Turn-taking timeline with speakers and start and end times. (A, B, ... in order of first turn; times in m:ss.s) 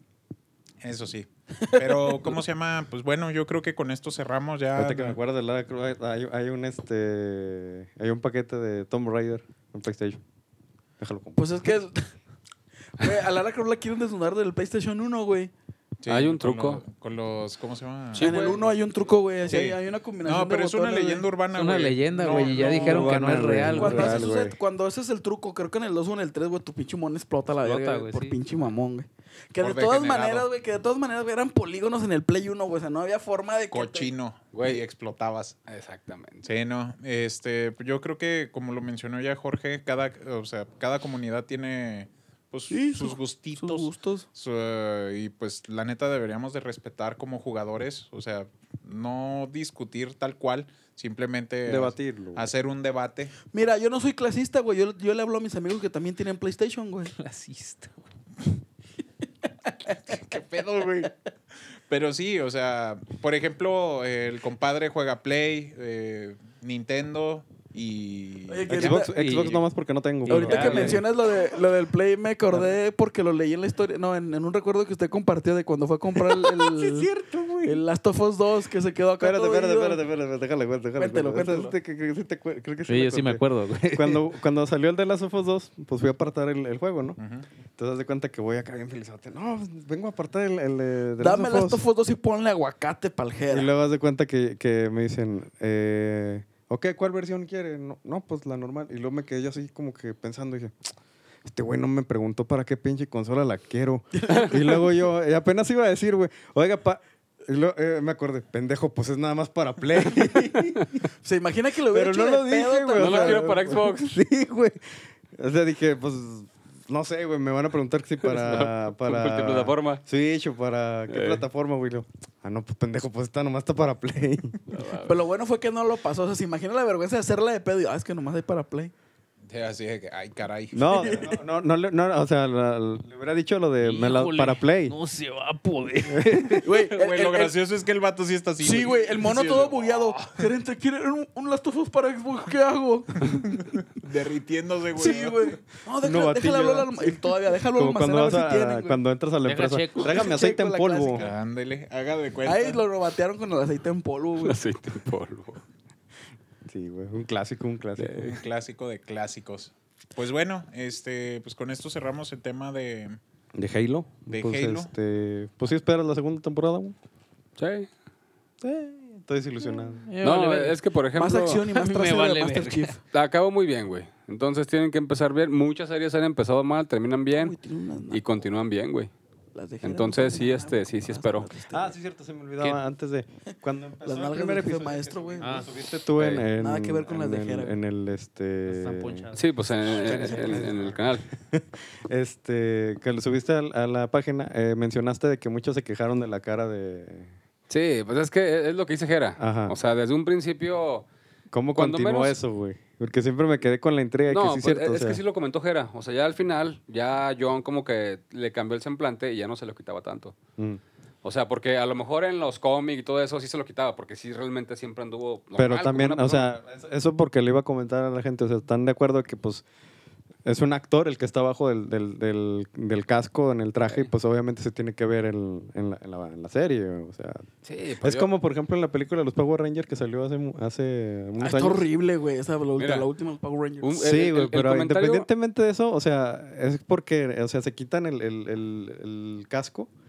0:00.8-0:05.2 A
0:01.6-0:02.4 B
0:04.8-0:10.2 C
0:11.0-0:11.6 C
0:11.4-0:12.1 B
0:13.0-0:15.5 B
0:16.0-0:18.6 A
0:16.1-0:16.8 D
0:18.1-0:18.7 D
0:18.2-0:21.2 B
0:19.4-0:23.2 A
0:21.5-0:24.2 E
0:22.6-0:24.6 C
0:23.7-0:34.1 B
0:27.6-0:28.4 E
0:29.6-0:30.5 A
0:33.7-0:35.6 A
0:34.5-0:34.8 D
0:35.7-0:36.5 D
0:36.4-0:53.3 A
0:42.7-0:44.3 B
0:51.6-0:52.5 C
0:53.5-0:57.1 B
0:57.1-0:58.0 E
1:00.1-1:01.1 A
1:01.9-1:09.6 A
1:08.5-1:09.1 B
1:08.7-1:11.0 C
1:09.1-1:09.6 E
1:10.2-1:11.0 E
1:10.3-1:17.1 B
1:17.0-1:17.8 C
1:17.6-1:20.0 B
1:19.2-1:27.2 C
1:21.0-1:21.7 B
1:22.9-1:24.3 E
1:27.2-1:27.4 A
1:27.8-1:31.8 C
1:31.2-1:33.7 B
1:33.5-1:40.7 C
1:41.4-1:51.0 C
1:44.2-1:44.9 B
1:51.2-1:53.8 B
1:51.9-2:04.6 C
1:53.0-1:54.1 D
1:58.2-2:00.0 D
2:01.1-2:01.4 D
2:04.7-2:05.2 D
2:05.0-2:08.9 B
2:09.5-2:11.1 A
2:10.7-2:15.0 C
2:10.9-2:11.4 B
2:13.8-2:16.7 E
2:16.1-2:16.6 C
2:16.6-2:17.5 B
2:16.9-2:20.4 A
2:18.6-2:23.4 B
2:23.2-2:25.6 A
2:25.0-2:29.0 B
2:26.0-2:31.3 C
2:29.4-2:30.2 E
2:30.0-2:31.4 B
2:31.2-2:32.8 A
2:32.4-2:34.6 B
2:34.4-2:35.6 D
2:36.6-2:38.4 C
2:38.0-2:38.3 D
2:38.2-2:43.2 A
2:43.5-2:46.9 C
2:44.3-2:44.9 A
2:47.6-2:47.9 D
2:48.6-2:50.0 C
2:50.0-2:50.8 E
2:50.2-2:51.6 D
2:51.1-2:53.0 B
2:51.7-2:52.9 E
2:53.1-2:57.6 D
2:57.3-2:58.2 B
2:58.1-2:59.1 D
2:59.5-3:02.0 B
2:59.8-3:01.5 D
3:01.7-3:09.3 C
3:04.0-3:05.6 B
3:05.4-3:05.7 E
3:06.2-3:06.5 D
3:06.6-3:07.8 B
3:08.7-3:10.7 E
3:09.3-3:11.2 D
3:09.8-3:17.3 C
3:17.7-3:21.1 D
3:19.4-3:19.8 C
3:21.5-3:25.2 C
3:21.7-3:22.4 D
3:24.3-3:30.4 D
3:31.2-3:36.5 D
3:35.6-3:39.6 C
3:40.4-3:47.4 C
3:47.6-3:48.3 D
3:48.0-3:51.9 C
3:51.4-3:53.9 B
3:52.8-3:53.0 D
3:53.8-3:55.3 D
3:54.0-3:59.9 C